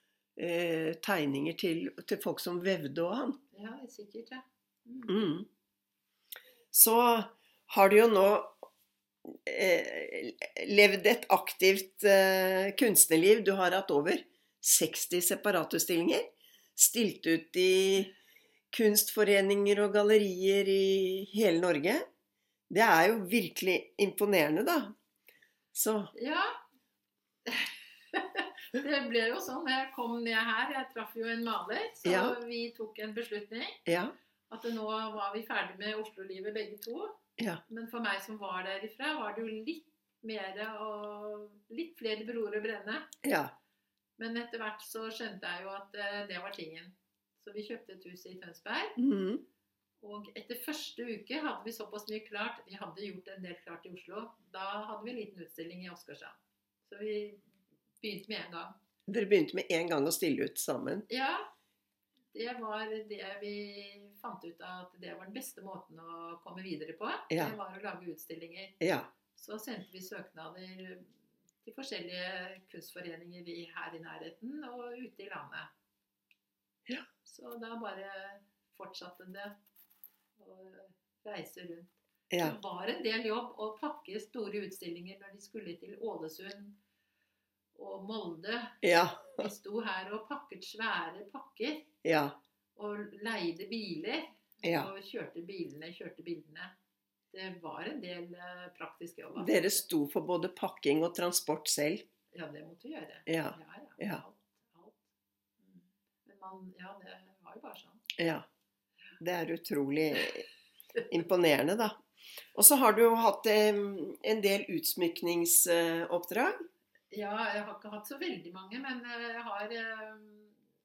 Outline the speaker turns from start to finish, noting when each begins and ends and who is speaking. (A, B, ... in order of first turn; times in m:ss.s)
0:00.4-0:03.4 A
0:03.5-0:05.2 B
0:05.1-0:05.5 A
0:06.7-0:08.6 A
0:09.3-0:18.1 A
0:18.7-0:22.0 A
0:22.7-0:24.9 A
0:25.7-0:26.1 A
0:26.1-0:26.6 B
0:27.4-0:33.8 B
0:32.0-0:32.4 A
0:33.8-0:34.1 A
0:34.5-0:37.2 B
0:37.7-0:43.1 B
0:43.2-0:43.5 A
0:44.2-0:49.0 B
0:49.0-0:49.4 A
0:50.0-0:57.4 B
0:58.0-0:58.8 B
0:59.1-1:01.0 A
1:01.1-1:01.5 B
1:02.3-1:08.8 B
1:07.3-1:07.6 A
1:08.8-1:09.1 A
1:09.3-1:11.1 B
1:11.6-1:15.7 B
1:17.2-1:19.6 B
1:20.4-1:26.8 B
1:22.3-1:22.6 A
1:27.8-1:28.8 B
1:28.8-1:29.5 A
1:29.3-1:31.9 B
1:32.0-1:32.4 A
1:32.8-1:36.7 B
1:34.6-1:34.9 A
1:37.3-1:39.8 B
1:39.4-1:42.0 A
1:42.3-1:45.0 B
1:43.3-1:44.2 A
1:45.6-1:48.0 B
1:48.2-1:48.4 A
1:49.2-1:50.4 A
1:51.1-1:52.0 A
1:52.5-1:56.6 A
1:57.1-2:00.5 B